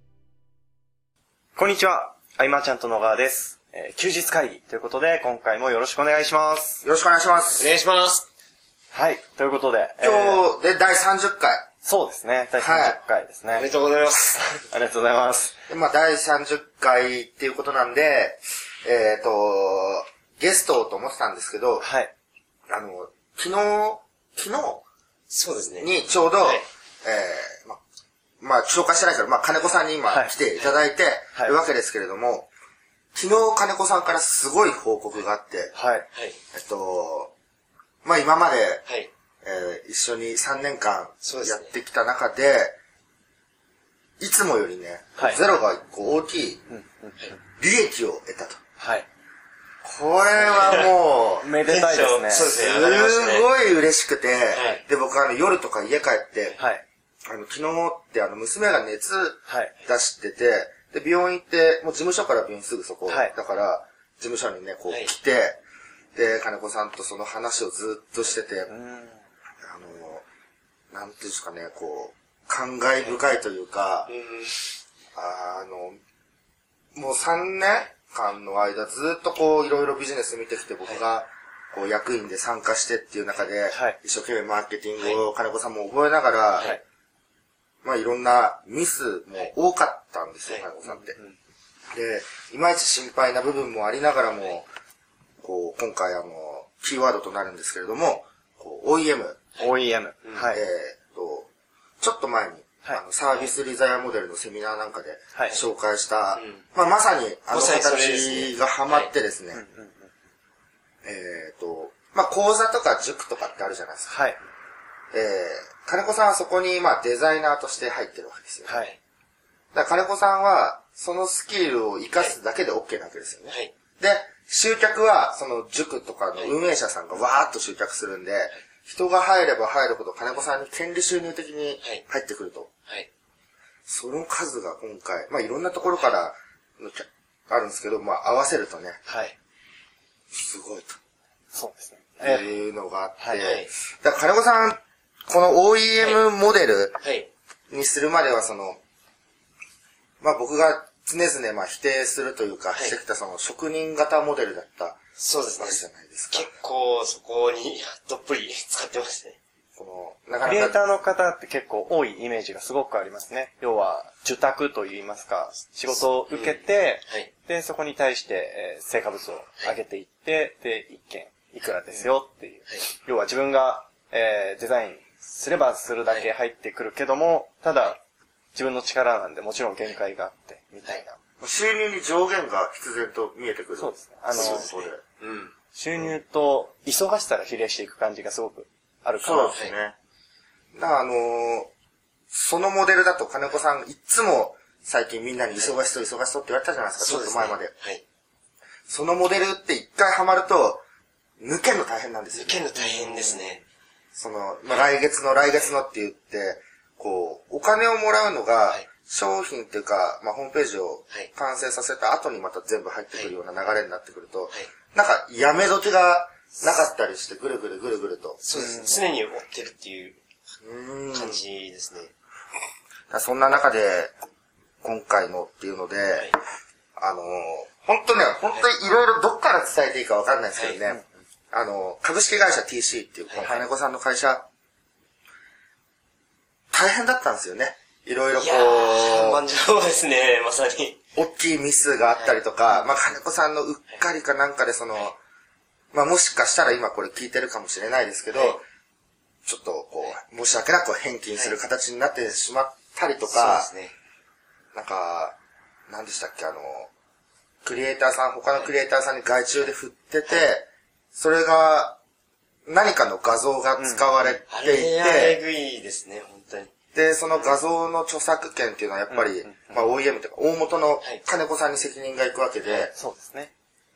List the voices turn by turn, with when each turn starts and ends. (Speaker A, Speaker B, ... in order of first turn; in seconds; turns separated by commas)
Speaker A: 1.6-6.8, Speaker B: 6.8-7.7, Speaker C: 7.6-8.2, Speaker A: 8.9-10.4, Speaker B: 10.0-11.7, Speaker A: 11.8-13.7, Speaker B: 12.6-13.0, Speaker C: 13.5-14.4, Speaker A: 14.3-15.6, Speaker B: 15.7-21.9, Speaker A: 21.8-22.1, Speaker B: 22.7-24.9, Speaker C: 25.3-26.6, Speaker B: 25.8-27.8, Speaker B: 28.4-32.5, Speaker B: 33.1-35.8, Speaker A: 35.8-36.1, Speaker C: 36.1-36.4, Speaker B: 36.5-37.3, Speaker B: 38.0-38.9, Speaker B: 39.4-42.8, Speaker C: 41.2-41.7, Speaker B: 44.2-46.6, Speaker A: 45.2-45.4, Speaker A: 46.7-47.4, Speaker B: 47.6-48.6, Speaker A: 48.8-49.1, Speaker B: 49.8-51.6, Speaker C: 50.4-50.9, Speaker A: 51.4-52.5, Speaker C: 51.7-53.5, Speaker B: 52.3-56.6, Speaker C: 54.5-54.8, Speaker A: 56.6-56.8, Speaker B: 57.3-65.6, Speaker A: 59.5-59.8, Speaker A: 63.1-63.3, Speaker B: 66.2-68.7, Speaker A: 68.7-69.2, Speaker B: 69.6-70.2, Speaker B: 70.9-74.1, Speaker C: 74.1-74.8, Speaker B: 75.2-76.0, Speaker B: 77.0-86.8, Speaker A: 83.7-84.0, Speaker C: 85.0-85.2, Speaker B: 87.8-91.2, Speaker C: 90.5-91.3, Speaker B: 91.9-94.7, Speaker B: 95.4-99.5, Speaker C: 99.5-100.5, Speaker A: 99.6-100.6, Speaker B: 100.5-101.5, Speaker B: 102.0-109.6, Speaker C: 106.3-106.7, Speaker C: 107.5-109.1, Speaker A: 109.5-110.1, Speaker B: 111.0-114.1, Speaker A: 114.1-114.4, Speaker B: 115.1-118.8, Speaker A: 118.7-118.9, Speaker B: 119.7-132.7, Speaker B: 133.9-139.0, Speaker A: 139.1-139.3, Speaker B: 140.3-141.0, Speaker A: 141.5-142.6, Speaker B: 142.2-147.0, Speaker C: 143.4-143.7, Speaker C: 147.0-147.3, Speaker B: 147.7-148.8, Speaker B: 150.2-155.0, Speaker C: 155.2-159.4, Speaker B: 155.6-156.5, Speaker B: 159.8-160.8, Speaker A: 160.4-178.0, Speaker C: 166.3-167.3, Speaker A: 178.6-181.2, Speaker B: 181.4-185.0, Speaker A: 183.8-184.7, Speaker C: 184.3-185.5, Speaker A: 185.7-189.6, Speaker B: 189.2-190.0, Speaker B: 190.7-191.7, Speaker B: 192.3-197.7, Speaker C: 197.0-198.0, Speaker B: 198.9-200.8, Speaker B: 201.4-202.7, Speaker C: 202.3-203.6, Speaker B: 204.1-218.8, Speaker C: 216.6-216.8, Speaker C: 218.4-220.2, Speaker A: 218.6-219.1, Speaker B: 220.6-221.4, Speaker C: 221.1-222.1, Speaker B: 223.1-224.2, Speaker B: 224.8-226.3, Speaker B: 227.0-234.5, Speaker C: 230.6-230.8, Speaker A: 233.4-233.7, Speaker B: 236.7-239.5, Speaker C: 238.4-241.0, Speaker B: 241.2-245.2, Speaker C: 242.2-243.0, Speaker B: 245.9-248.6, Speaker C: 248.3-248.6, Speaker B: 249.4-253.7, Speaker C: 253.3-253.9, Speaker B: 254.7-255.4, Speaker B: 255.9-256.9, Speaker B: 257.6-262.0, Speaker B: 262.7-265.4, Speaker A: 263.8-264.4, Speaker C: 264.5-266.7, Speaker B: 266.9-272.9, Speaker C: 267.3-267.6, Speaker A: 269.1-269.9, Speaker A: 272.9-273.5